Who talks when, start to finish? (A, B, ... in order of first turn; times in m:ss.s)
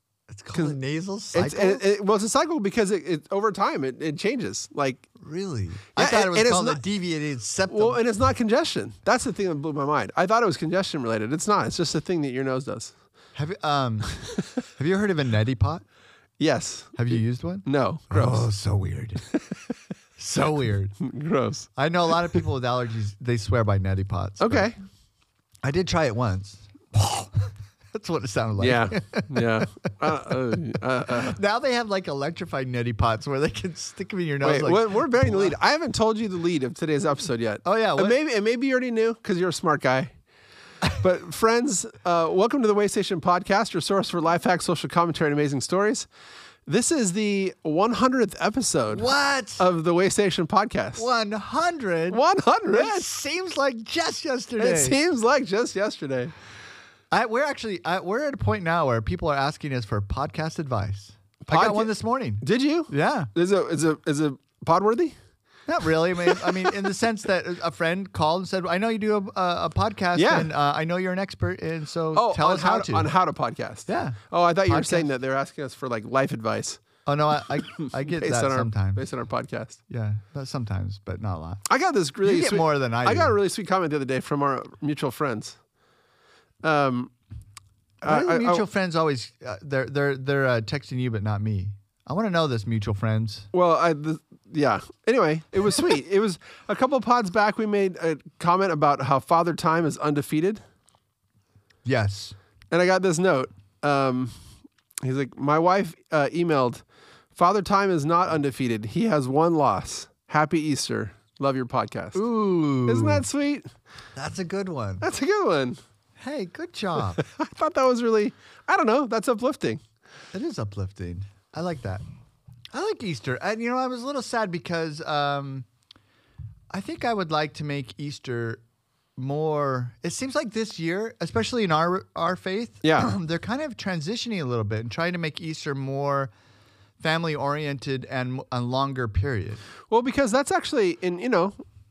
0:00.3-0:01.8 A
0:01.3-0:05.1 B
0:05.2-0:08.0 A
0:06.0-0:06.8 B
0:07.7-0:13.0 B
0:13.4-0:14.2 A
0:14.7-0:15.8 A
0:16.4-0:18.5 B
0:17.0-0:19.2 A
0:19.3-0:19.6 B
0:20.2-0:21.0 A
0:21.0-0:21.7 B
0:21.8-0:24.7 A
0:24.4-0:24.8 B
0:25.6-0:30.3 A
0:28.6-0:31.4 B
0:31.1-0:35.6 A
0:34.4-0:40.1 B
0:37.6-0:38.2 A
0:41.0-0:46.1 B
0:46.7-0:51.1 B
0:48.9-0:49.7 A
0:51.0-0:55.0 A
0:52.1-0:53.1 B
0:54.6-0:56.4 B
0:57.1-1:03.3 A
1:01.4-1:05.2 B
1:05.7-1:13.1 A
1:06.2-1:06.7 B
1:10.2-1:10.5 B
1:12.1-1:16.8 B
1:13.9-1:15.1 A
1:17.1-1:19.0 A
1:17.6-1:19.8 B
1:19.9-1:21.6 A
1:21.7-1:25.6 B
1:22.2-1:23.4 A
1:26.6-1:27.1 B
1:28.0-1:33.5 A
1:28.0-1:28.7 B
1:33.5-1:40.6 B
1:41.8-1:42.4 A
1:42.7-1:44.4 B
1:45.0-1:52.2 B
1:52.1-1:53.2 A
1:52.9-1:53.7 B
1:54.2-1:55.0 A
1:55.0-1:55.8 B
1:56.2-1:57.2 A
1:57.2-1:59.8 B
2:00.3-2:02.0 A
2:02.7-2:05.7 A
2:06.7-2:08.6 A
2:09.2-2:16.3 A
2:12.8-2:13.1 B
2:17.0-2:19.6 A
2:19.9-2:21.6 B